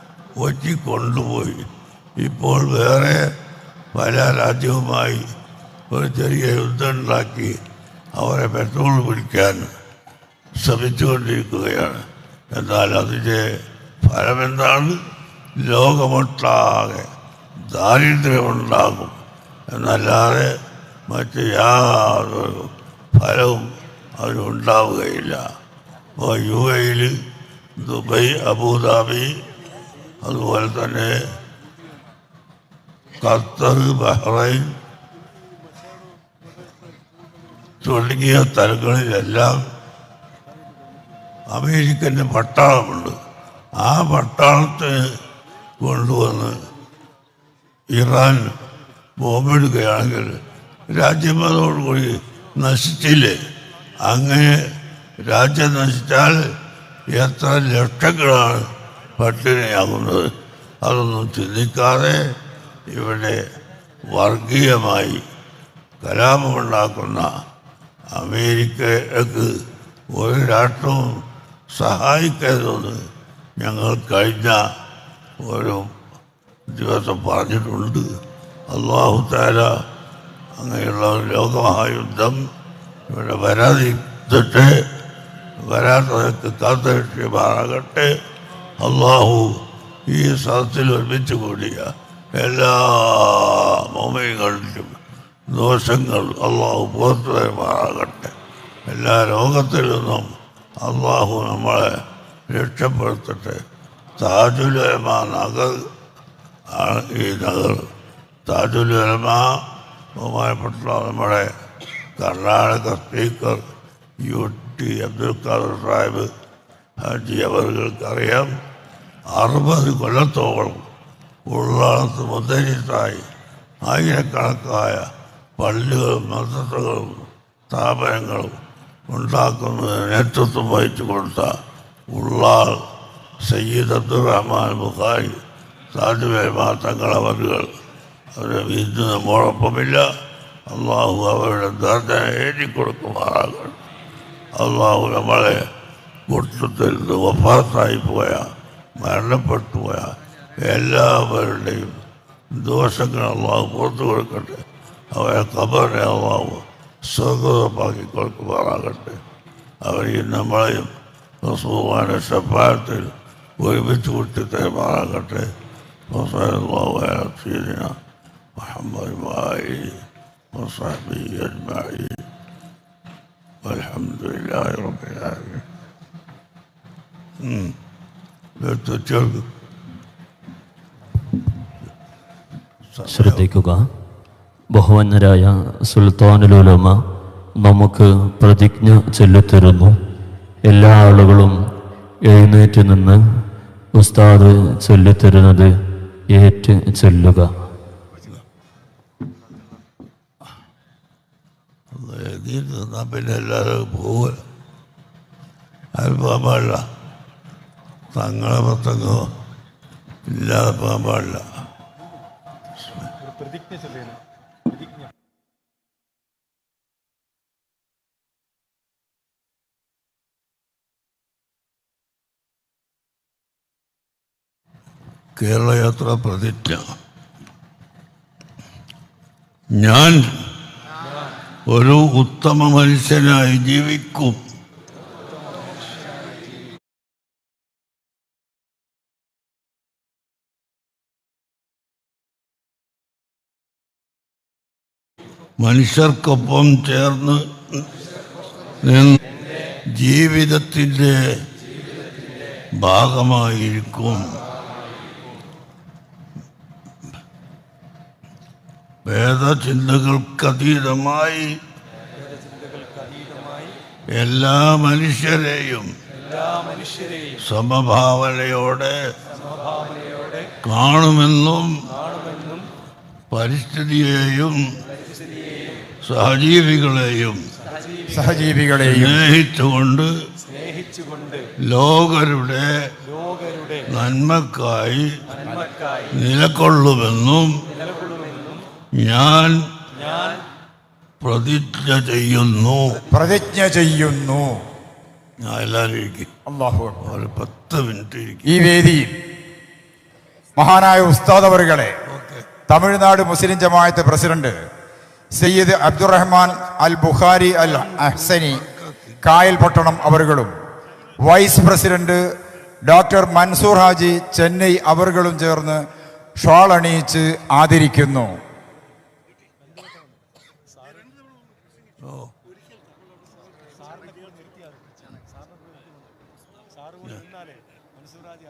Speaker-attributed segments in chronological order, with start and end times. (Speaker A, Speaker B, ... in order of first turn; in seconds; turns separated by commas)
Speaker A: 0.4-3.3, Speaker A: 3.9-5.2, Speaker A: 5.9-7.6, Speaker A: 8.2-9.7, Speaker A: 10.6-15.0, Speaker A: 15.6-20.6, Speaker A: 21.1-25.5, Speaker A: 26.2-27.2, Speaker A: 27.8-29.4, Speaker A: 30.2-31.1, Speaker A: 33.2-34.7, Speaker A: 37.8-39.6, Speaker A: 41.5-43.1, Speaker A: 43.7-45.2, Speaker A: 45.8-46.6, Speaker A: 47.9-48.5, Speaker A: 49.2-53.4, Speaker A: 54.0-56.5, Speaker A: 57.1-62.2, Speaker A: 62.9-63.4, Speaker A: 64.1-65.2, Speaker A: 66.0-67.3, Speaker A: 68.1-69.6, Speaker A: 70.1-73.0, Speaker A: 73.6-74.6, Speaker A: 75.4-75.9, Speaker A: 76.7-78.1, Speaker A: 78.7-79.8, Speaker A: 80.5-82.4, Speaker A: 83.1-84.8, Speaker A: 85.6-88.1, Speaker A: 88.8-98.3, Speaker A: 98.9-103.6, Speaker A: 104.2-105.9, Speaker A: 106.7-107.9, Speaker A: 108.5-109.6, Speaker A: 110.2-111.5, Speaker A: 112.2-113.6, Speaker A: 114.2-116.3, Speaker A: 117.0-118.5, Speaker A: 119.3-120.9, Speaker A: 121.5-123.2, Speaker A: 123.8-131.6, Speaker A: 132.1-132.8, Speaker A: 133.4-135.4, Speaker A: 135.9-137.7, Speaker A: 138.3-140.1, Speaker A: 140.7-143.8, Speaker A: 144.5-145.7, Speaker A: 146.3-152.0, Speaker A: 152.5-159.2, Speaker A: 159.8-160.9, Speaker A: 161.4-165.5, Speaker A: 166.1-168.0, Speaker A: 168.6-172.2, Speaker A: 173.6-175.6, Speaker A: 177.4-177.8, Speaker A: 178.6-179.4, Speaker A: 182.9-183.5, Speaker B: 183.1-183.8, Speaker B: 184.7-187.0, Speaker B: 187.6-189.9, Speaker B: 190.7-191.6, Speaker B: 192.2-193.2, Speaker B: 194.0-195.7, Speaker B: 196.3-197.5, Speaker A: 201.9-204.4, Speaker A: 205.9-206.8, Speaker A: 208.1-209.3, Speaker A: 210.2-211.4, Speaker A: 225.3-226.9, Speaker A: 229.7-230.5, Speaker A: 231.7-234.4, Speaker A: 245.6-247.9, Speaker A: 248.8-251.2, Speaker A: 252.8-254.4, Speaker A: 259.1-261.6, Speaker A: 264.1-265.9, Speaker A: 267.2-268.9, Speaker A: 270.6-271.9, Speaker A: 273.3-274.8, Speaker A: 276.0-277.4, Speaker C: 278.1-279.2, Speaker A: 278.8-280.1, Speaker A: 281.6-282.9, Speaker A: 283.7-285.5, Speaker A: 286.1-287.7, Speaker A: 288.9-289.6, Speaker A: 291.2-293.0, Speaker C: 293.1-294.6, Speaker A: 295.4-296.3, Speaker C: 296.5-297.0, Speaker A: 297.0-298.5, Speaker C: 298.4-299.2, Speaker C: 300.6-302.0, Speaker A: 302.1-302.4, Speaker C: 302.7-304.6, Speaker C: 305.3-308.6, Speaker A: 307.7-309.2, Speaker C: 309.2-310.5, Speaker C: 311.2-312.2, Speaker C: 312.9-315.8, Speaker C: 316.4-318.4, Speaker A: 322.0-322.3